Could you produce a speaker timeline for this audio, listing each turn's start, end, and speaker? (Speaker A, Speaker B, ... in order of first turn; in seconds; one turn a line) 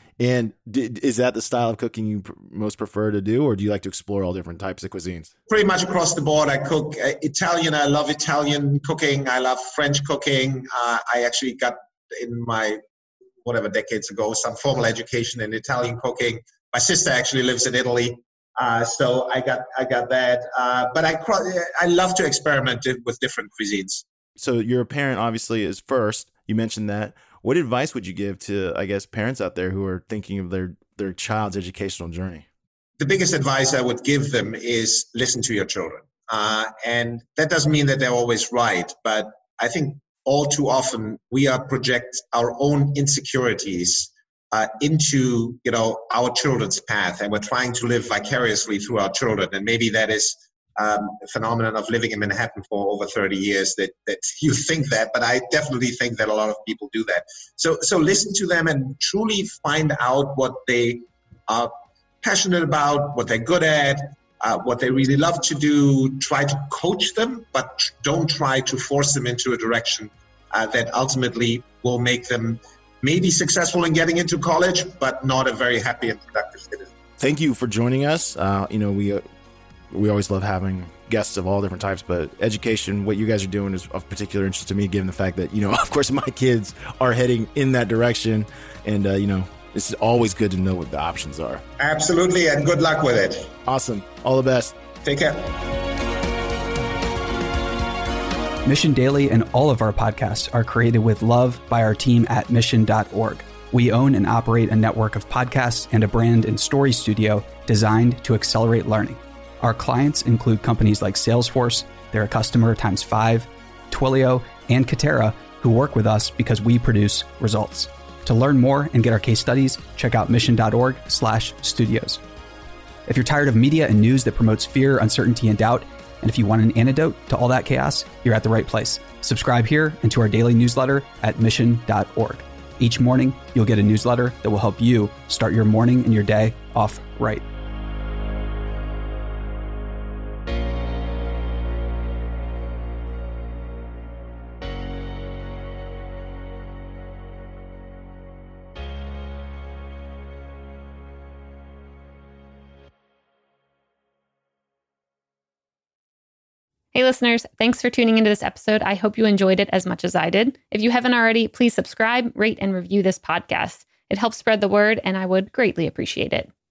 Speaker A: 0.2-5.3
Speaker B: 5.5-12.8
Speaker B: 13.4-24.0
Speaker A: 24.4-32.5
Speaker B: 33.0-76.9
Speaker A: 77.2-79.2
Speaker A: 79.9-91.6
Speaker B: 91.8-93.5
Speaker A: 93.7-94.8
Speaker B: 95.0-95.5
Speaker C: 98.7-122.2
Speaker C: 123.1-137.4
Speaker D: 156.9-166.5